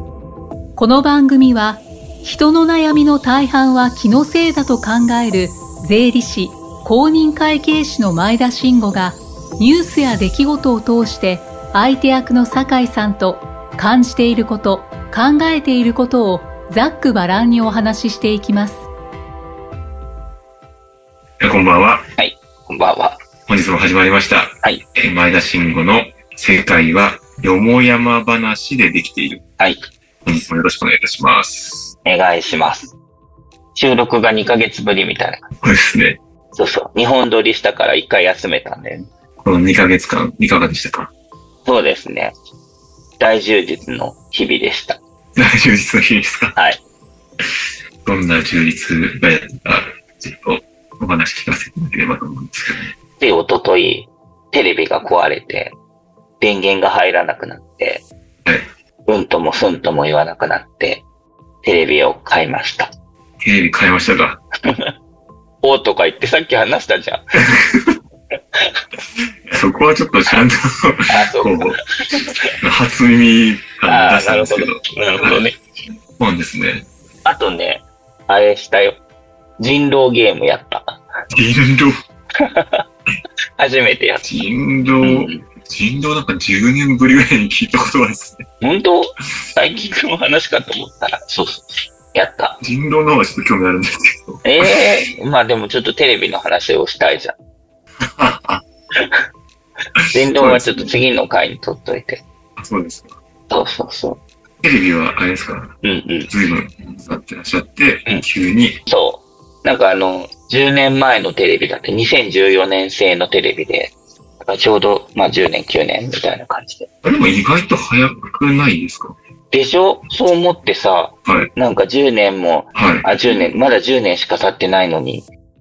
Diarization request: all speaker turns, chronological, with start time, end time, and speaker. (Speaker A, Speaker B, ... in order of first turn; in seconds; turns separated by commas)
Speaker A: 0.8-18.9, Speaker B: 21.4-22.0, Speaker C: 22.2-23.2, Speaker B: 23.5-29.4, Speaker C: 29.6-29.8, Speaker B: 30.2-31.9, Speaker C: 32.0-32.9, Speaker C: 33.7-35.5, Speaker B: 35.6-36.2, Speaker C: 36.5-39.1, Speaker B: 39.4-41.1, Speaker C: 41.6-42.3, Speaker C: 43.2-45.0, Speaker B: 45.3-46.5, Speaker C: 46.5-46.8, Speaker B: 48.0-52.9, Speaker C: 53.2-55.8, Speaker C: 56.4-58.0, Speaker C: 59.0-61.0, Speaker C: 61.6-62.9, Speaker B: 63.4-64.4, Speaker C: 65.6-67.2, Speaker B: 67.5-68.0, Speaker B: 69.5-75.4, Speaker C: 71.1-72.5, Speaker C: 73.9-75.6, Speaker B: 76.2-76.9, Speaker C: 77.2-79.0, Speaker C: 79.6-81.0, Speaker B: 81.3-82.0, Speaker C: 82.4-82.8, Speaker C: 83.6-84.2, Speaker B: 84.2-88.4, Speaker C: 85.0-85.4, Speaker C: 88.6-92.6, Speaker B: 92.6-94.9, Speaker C: 94.4-97.3, Speaker B: 98.0-98.6, Speaker C: 99.0-99.2, Speaker B: 100.1-100.9, Speaker C: 100.1-102.2, Speaker B: 102.6-103.1, Speaker C: 103.5-104.2, Speaker B: 104.6-105.7, Speaker C: 105.8-106.3, Speaker B: 106.3-108.8, Speaker C: 108.8-116.9, Speaker B: 117.0-119.2, Speaker C: 119.5-125.3, Speaker B: 122.7-123.1